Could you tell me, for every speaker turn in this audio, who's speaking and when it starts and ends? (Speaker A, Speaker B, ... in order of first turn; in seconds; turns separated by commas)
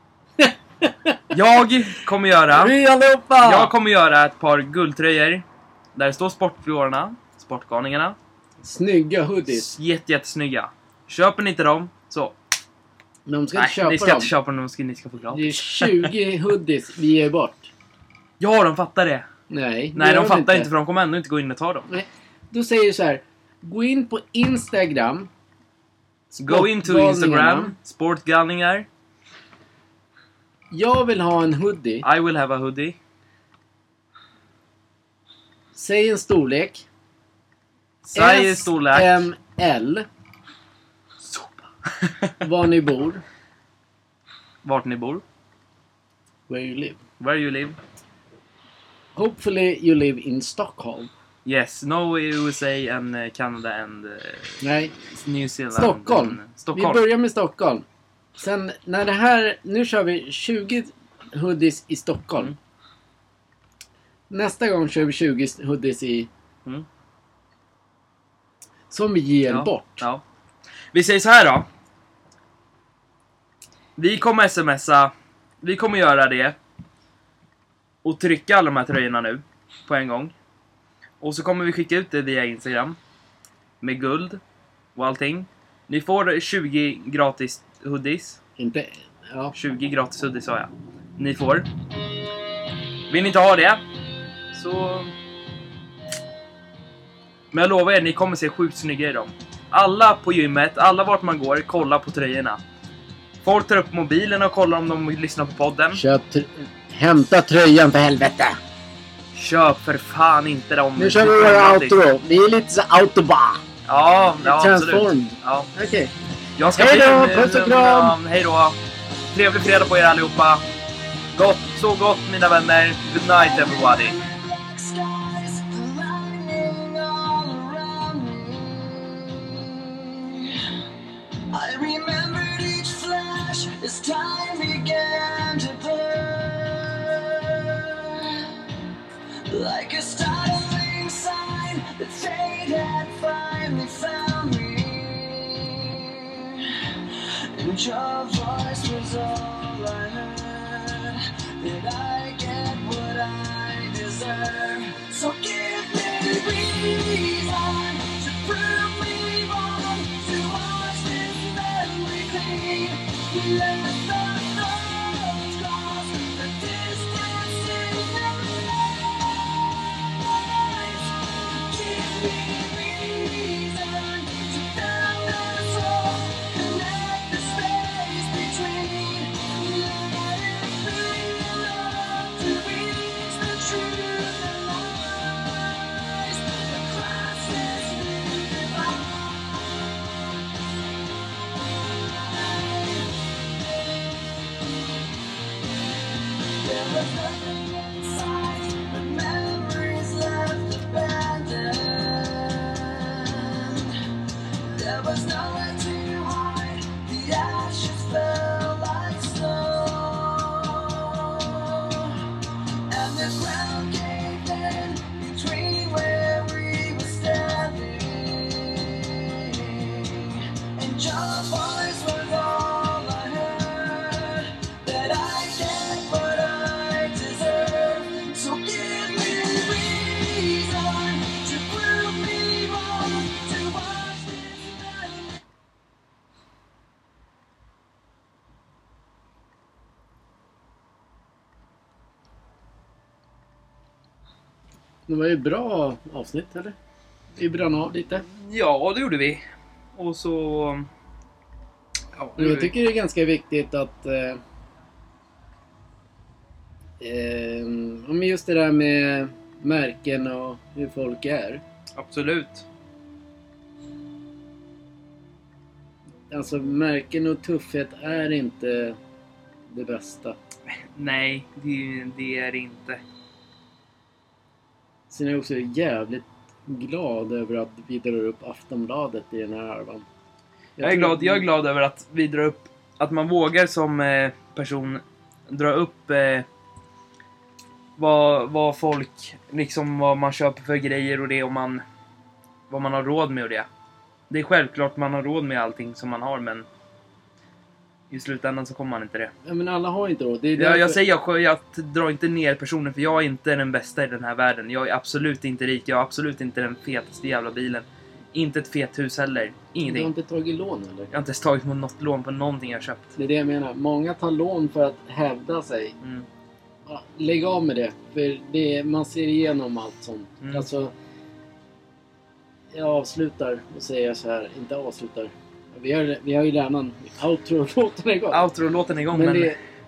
Speaker A: 0.4-1.3, Speaker B: 1.3-2.7, Speaker A: 2.5-3.7, Speaker B: 3.4-8.2, Speaker A: 8.6-9.7, Speaker B: 9.5-12.3, Speaker A: 13.3-14.3, Speaker B: 13.6-16.1, Speaker A: 15.3-17.7, Speaker B: 18.4-19.3, Speaker A: 19.5-20.7, Speaker B: 19.9-21.9, Speaker A: 21.9-25.3, Speaker A: 26.3-27.8, Speaker B: 26.4-28.9, Speaker A: 30.7-32.0, Speaker B: 32.0-33.0, Speaker A: 35.7-36.9, Speaker B: 38.0-39.2, Speaker A: 38.1-40.1, Speaker B: 41.2-42.3, Speaker A: 42.4-43.2, Speaker B: 44.6-45.2, Speaker A: 46.5-47.0, Speaker B: 47.2-47.8, Speaker A: 49.2-51.1, Speaker B: 51.5-57.1, Speaker A: 54.6-54.9, Speaker A: 55.7-57.9, Speaker A: 58.4-62.5, Speaker A: 64.3-66.3, Speaker A: 68.9-70.1, Speaker B: 69.5-70.2, Speaker B: 70.9-71.7, Speaker B: 74.0-76.6, Speaker B: 78.0-80.3, Speaker B: 81.2-83.0, Speaker B: 83.8-84.4, Speaker B: 85.0-88.4, Speaker A: 88.6-89.5, Speaker B: 89.5-91.7, Speaker B: 93.1-93.8, Speaker B: 94.5-95.1, Speaker B: 97.5-102.6, Speaker B: 103.4-106.0, Speaker A: 105.9-108.6, Speaker B: 109.3-112.0, Speaker A: 111.0-113.6, Speaker B: 113.9-115.7, Speaker A: 114.4-116.1, Speaker B: 116.6-118.8, Speaker A: 116.7-118.2, Speaker B: 119.3-120.6, Speaker B: 121.3-124.2, Speaker C: 123.2-130.6, Speaker C: 131.5-138.7, Speaker C: 139.5-190.1, Speaker C: 191.7-194.2, Speaker C: 196.4-212.4, Speaker C: 212.9-235.4, Speaker A: 245.1-246.8, Speaker A: 247.4-248.3, Speaker B: 248.3-249.4, Speaker B: 249.9-250.9, Speaker B: 252.2-252.7, Speaker A: 252.4-254.4, Speaker A: 257.0-261.6, Speaker B: 262.0-262.7, Speaker A: 266.3-269.0, Speaker A: 269.7-270.4, Speaker B: 270.7-273.0, Speaker A: 275.1-280.1, Speaker A: 280.8-281.5, Speaker B: 280.8-286.5, Speaker B: 288.0-291.8, Speaker B: 292.7-293.7, Speaker B: 294.3-296.7, Speaker B: 298.1-299.3, Speaker A: 299.4-301.0, Speaker B: 300.6-310.1, Speaker A: 309.8-311.1, Speaker B: 311.1-313.1, Speaker A: 313.2-316.0, Speaker B: 316.0-316.3, Speaker A: 316.9-320.9, Speaker B: 320.4-320.7, Speaker A: 322.7-328.5, Speaker B: 328.3-329.6, Speaker A: 329.1-329.6